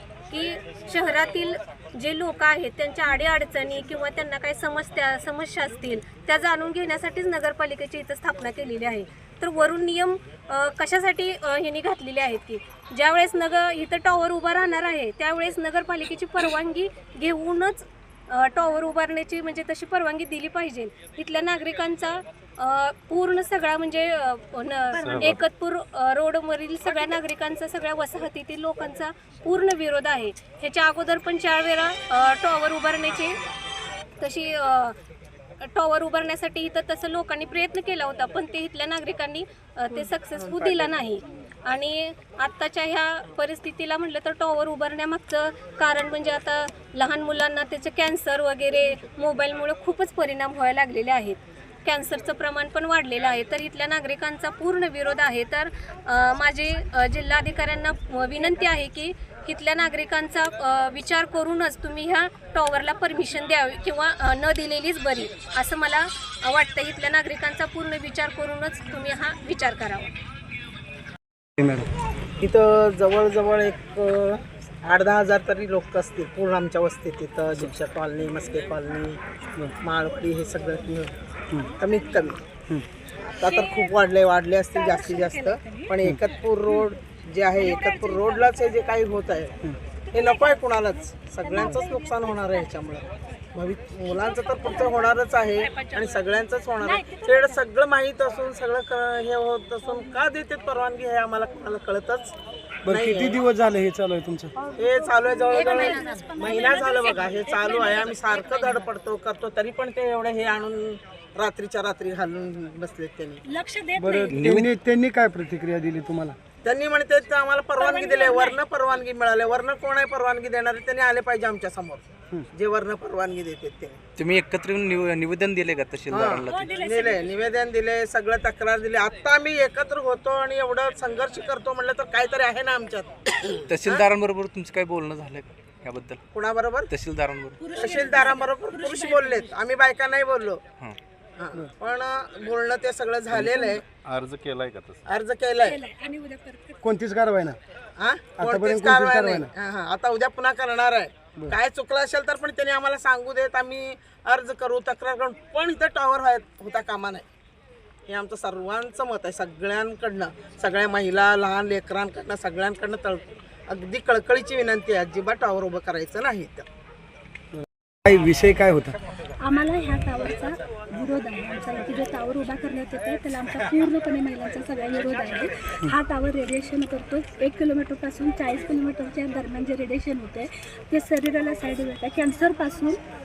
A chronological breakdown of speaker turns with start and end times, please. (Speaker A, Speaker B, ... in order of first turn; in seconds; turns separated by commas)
Speaker A: 0.3-33.4, Speaker B: 25.0-25.4, Speaker A: 34.2-35.0, Speaker A: 35.7-70.1, Speaker C: 39.9-40.9, Speaker D: 71.6-71.9, Speaker C: 72.4-79.2, Speaker C: 79.8-81.2, Speaker C: 81.8-82.4, Speaker E: 83.4-84.0, Speaker C: 83.4-89.5, Speaker E: 84.7-86.0, Speaker E: 87.6-88.8, Speaker C: 90.1-102.3, Speaker E: 91.4-92.7, Speaker E: 94.6-95.1, Speaker E: 96.8-97.6, Speaker D: 102.8-104.5, Speaker C: 102.9-103.4, Speaker E: 104.7-108.9, Speaker C: 104.8-113.4, Speaker E: 113.5-114.5, Speaker D: 114.0-116.4, Speaker F: 114.4-114.7, Speaker C: 116.6-124.0, Speaker E: 117.8-118.6, Speaker F: 124.2-126.8, Speaker C: 126.1-134.1, Speaker E: 126.4-127.5, Speaker F: 133.7-136.2, Speaker C: 136.3-136.9, Speaker F: 136.9-137.6, Speaker E: 137.6-139.5, Speaker C: 137.7-140.6, Speaker C: 141.4-143.8, Speaker B: 143.3-145.1, Speaker C: 145.1-145.8, Speaker E: 145.6-146.9, Speaker D: 146.8-147.6, Speaker C: 148.0-157.3, Speaker D: 148.4-149.5, Speaker C: 158.1-166.7, Speaker D: 167.6-168.9, Speaker E: 169.4-183.0